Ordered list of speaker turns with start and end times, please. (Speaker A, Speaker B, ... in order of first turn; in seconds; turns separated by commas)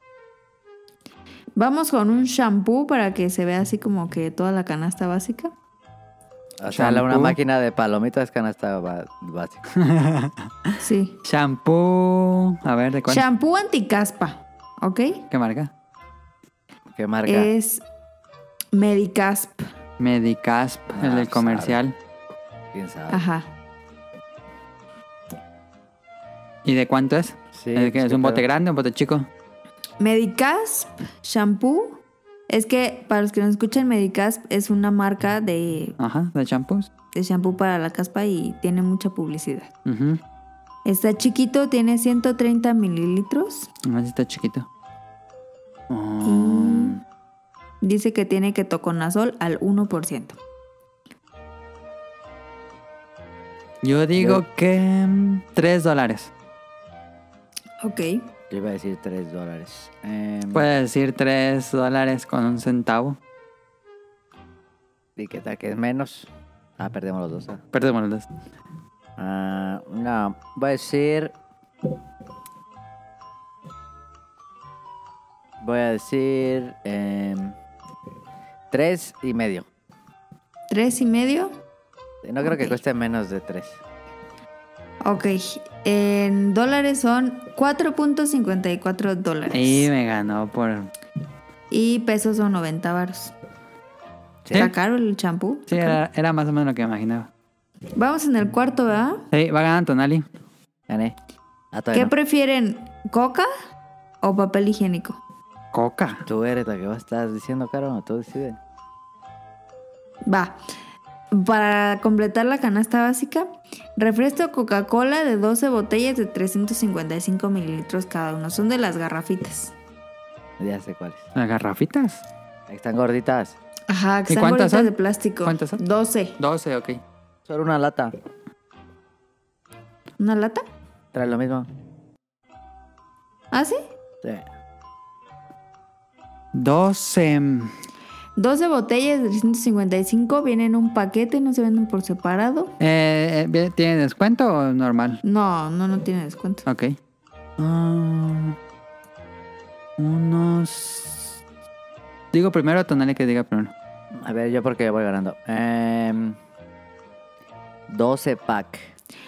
Speaker A: 1.6-5.5, Speaker B: 6.6-9.6, Speaker C: 6.7-7.4, Speaker C: 9.7-10.7, Speaker A: 10.8-11.2, Speaker C: 11.2-13.2, Speaker A: 13.1-15.2, Speaker C: 15.3-15.7, Speaker B: 16.9-17.5, Speaker A: 17.2-17.8, Speaker A: 18.7-19.6, Speaker C: 20.0-21.9, Speaker B: 20.9-21.8, Speaker B: 22.7-23.2, Speaker A: 23.1-23.5, Speaker C: 26.6-29.3, Speaker B: 27.5-28.4, Speaker A: 30.0-36.0, Speaker C: 36.0-36.9, Speaker A: 37.1-39.7, Speaker C: 39.9-40.2, Speaker A: 40.8-43.7, Speaker C: 43.9-44.7, Speaker C: 45.9-47.0, Speaker A: 46.2-46.9, Speaker A: 47.8-50.4, Speaker C: 53.8-56.3, Speaker B: 54.1-54.4, Speaker A: 57.8-58.3, Speaker B: 58.5-60.7, Speaker C: 60.5-63.2, Speaker B: 65.2-67.6, Speaker C: 67.7-68.2, Speaker B: 69.2-71.3, Speaker B: 75.6-77.5, Speaker B: 78.7-79.7, Speaker A: 80.7-81.5, Speaker B: 82.2-83.8, Speaker A: 82.4-82.8, Speaker A: 85.0-89.9, Speaker C: 89.5-90.9, Speaker A: 91.7-93.3, Speaker B: 94.4-94.7, Speaker A: 94.5-96.0, Speaker C: 95.7-97.3, Speaker A: 98.0-99.2, Speaker C: 99.3-100.2, Speaker B: 100.9-101.2, Speaker B: 101.7-102.1, Speaker A: 101.9-103.5, Speaker A: 104.2-105.2, Speaker C: 105.7-106.2, Speaker B: 106.2-108.6, Speaker A: 110.2-110.6, Speaker A: 111.3-119.7, Speaker B: 120.6-121.2, Speaker C: 121.3-122.2, Speaker B: 122.7-123.5, Speaker A: 123.9-126.4, Speaker C: 124.3-125.8, Speaker C: 126.4-127.0, Speaker B: 127.5-128.1, Speaker A: 130.2-130.6, Speaker B: 131.1-131.7, Speaker A: 133.5-133.8, Speaker C: 136.5-137.7, Speaker A: 138.3-142.7, Speaker C: 142.8-145.2, Speaker A: 145.2-146.6, Speaker C: 146.7-146.9, Speaker C: 147.6-148.6, Speaker C: 150.0-151.4, Speaker C: 152.3-153.7, Speaker B: 154.1-156.4, Speaker B: 157.9-158.9